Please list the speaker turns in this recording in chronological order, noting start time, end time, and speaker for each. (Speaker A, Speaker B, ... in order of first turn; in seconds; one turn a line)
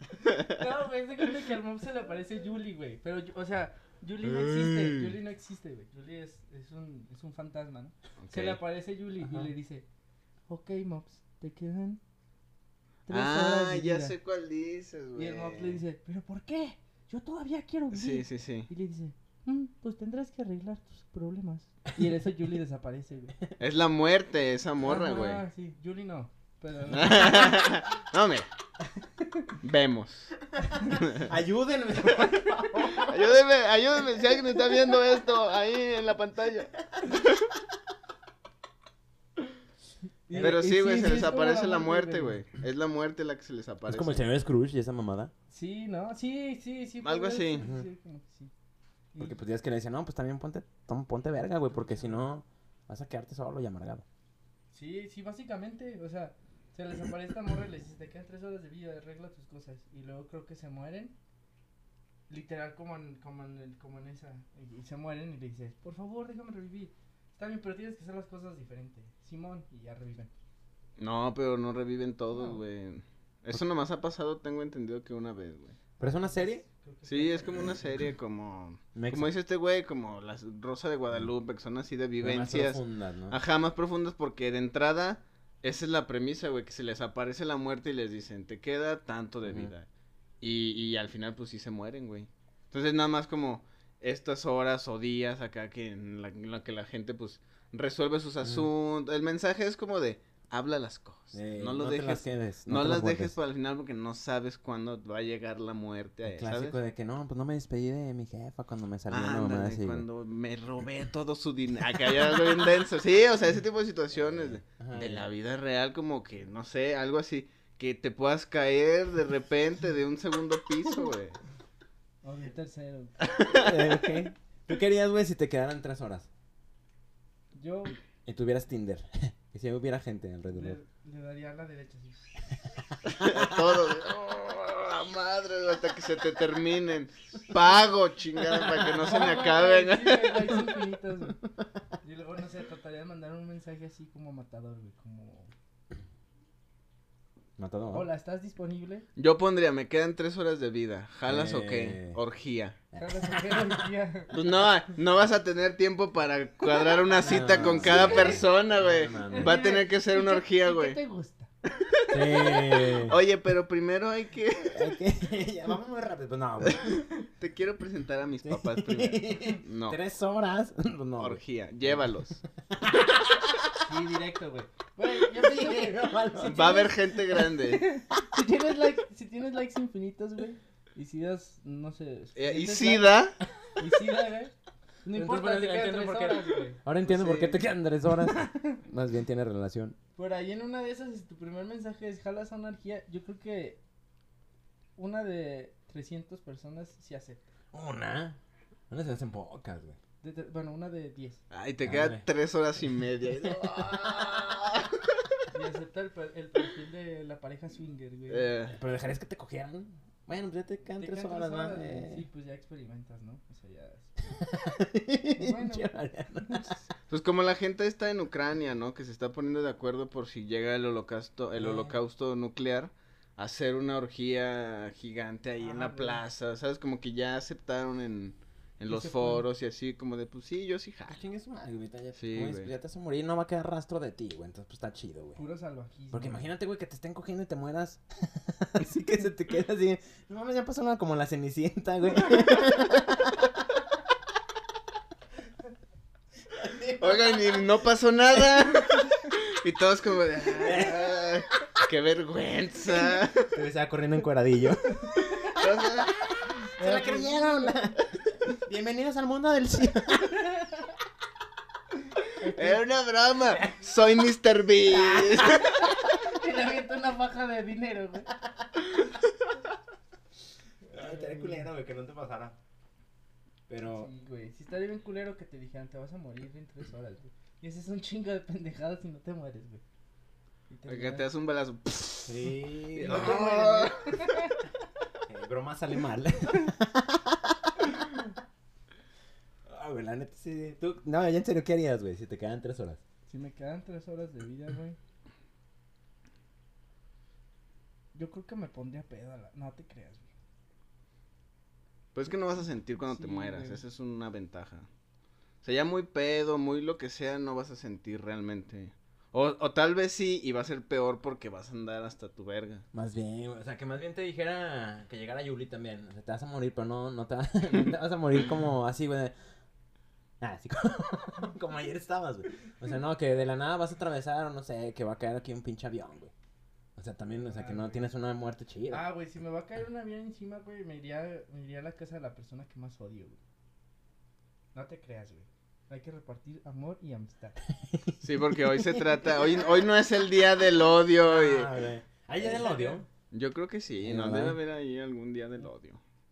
Speaker A: 0.2-0.6
Speaker B: 0.4-9.8
Speaker A: 4.4-5.1
Speaker A: 8.2-8.6
Speaker C: 9.2-9.5
Speaker B: 10.5-12.0
Speaker B: 13.1-14.1
Speaker A: 13.1-15.8
Speaker B: 15.2-23.4
Speaker A: 17.9-18.7
Speaker A: 23.6-25.4
Speaker B: 24.8-27.6
Speaker A: 26.9-28.5
Speaker B: 29.2-29.5
Speaker A: 29.6-30.4
Speaker B: 30.7-31.0
Speaker A: 31.0-31.2
Speaker C: 31.2-33.3
Speaker A: 33.0-37.4
Speaker B: 40.3-42.4
Speaker C: 40.3-40.7
Speaker A: 40.4-44.2
Speaker C: 43.9-45.3
Speaker B: 45.5-48.5
Speaker A: 47.0-47.7
Speaker C: 47.6-47.9
Speaker C: 49.2-54.0
Speaker B: 51.7-52.3
Speaker B: 54.7-61.1
Speaker B: 62.3-70.3
Speaker A: 71.0-75.8
Speaker B: 72.3-72.6
Speaker C: 76.0-76.6
Speaker B: 76.0-77.9
Speaker A: 77.0-89.9
Speaker C: 78.9-79.3
Speaker C: 82.2-83.4
Speaker C: 89.5-89.7
Speaker A: 90.4-106.8
Speaker C: 98.4-98.7
Speaker C: 101.3-103.3
Speaker C: 106.2-110.0
Speaker A: 109.1-121.4
Speaker C: 114.2-115.3
Speaker B: 122.2-123.3
Speaker A: 123.2-123.8
Speaker C: 123.5-126.3
Speaker B: 127.5-127.9
Speaker C: 128.2-130.8
Speaker B: 130.5-132.5
Speaker A: 133.1-140.6
Speaker B: 139.0-141.4
Speaker B: 142.0-145.5
Speaker C: 147.6-148.1
Speaker B: 147.9-149.0
Speaker A: 149.2-152.8
Speaker C: 151.2-152.2
Speaker C: 152.9-153.9
Speaker B: 153.0-154.3
Speaker A: 154.3-161.0
Speaker C: 157.2-159.6
Speaker B: 157.5-158.3
Speaker B: 159.3-161.5
Speaker A: 161.7-164.9
Speaker C: 162.1-163.2
Speaker C: 164.7-167.0
Speaker A: 166.7-170.0
Speaker C: 168.4-172.1
Speaker A: 171.2-172.4
Speaker C: 172.7-173.7
Speaker B: 173.8-184.5
Speaker C: 175.1-176.9
Speaker A: 176.4-177.8
Speaker A: 182.3-183.3
Speaker B: 185.0-186.8
Speaker C: 185.1-190.0
Speaker A: 187.0-187.6
Speaker B: 188.2-188.8
Speaker B: 190.2-193.8
Speaker B: 195.0-197.4
Speaker C: 197.7-198.4
Speaker C: 198.9-200.0
Speaker B: 200.2-201.4
Speaker A: 201.5-205.1
Speaker C: 201.8-202.2
Speaker C: 203.4-204.1
Speaker B: 205.5-208.5
Speaker A: 208.3-208.8
Speaker C: 208.7-212.2
Speaker B: 211.0-214.3
Speaker C: 214.3-216.8
Speaker B: 215.3-216.8
Speaker A: 217.1-231.2
Speaker C: 221.6-221.9
Speaker B: 225.6-226.2
Speaker B: 228.9-229.4
Speaker C: 231.1-235.4
Speaker A: 232.2-232.7
Speaker B: 235.3-236.4
Speaker C: 236.1-243.8
Speaker C: 246.5-247.6
Speaker A: 247.0-253.5
Speaker C: 250.6-251.3
Speaker C: 253.5-255.6
Speaker A: 255.5-256.1
Speaker C: 256.1-260.5
Speaker B: 256.8-257.7
Speaker B: 262.4-262.8
Speaker A: 262.5-265.9
Speaker C: 264.9-265.7
Speaker B: 265.9-268.3
Speaker B: 270.8-271.7
Speaker C: 270.9-272.6
Speaker C: 273.7-274.1
Speaker B: 273.9-279.8
Speaker B: 280.7-281.2
Speaker A: 280.9-284.2
Speaker C: 282.2-283.6
Speaker B: 283.0-284.6
Speaker C: 285.3-287.9
Speaker C: 289.6-293.0
Speaker B: 293.3-295.0
Speaker B: 298.1-300.3
Speaker A: 302.1-304.9
Speaker B: 303.0-303.8
Speaker A: 305.6-312.8
Speaker C: 312.9-319.3
Speaker C: 320.4-326.3
Speaker C: 326.9-329.1
Speaker B: 327.5-328.1
Speaker B: 328.9-333.4
Speaker B: 334.7-337.6
Speaker C: 337.8-339.1
Speaker A: 338.2-341.7
Speaker C: 341.2-343.1
Speaker B: 342.4-343.0
Speaker A: 343.3-346.0
Speaker C: 344.0-344.6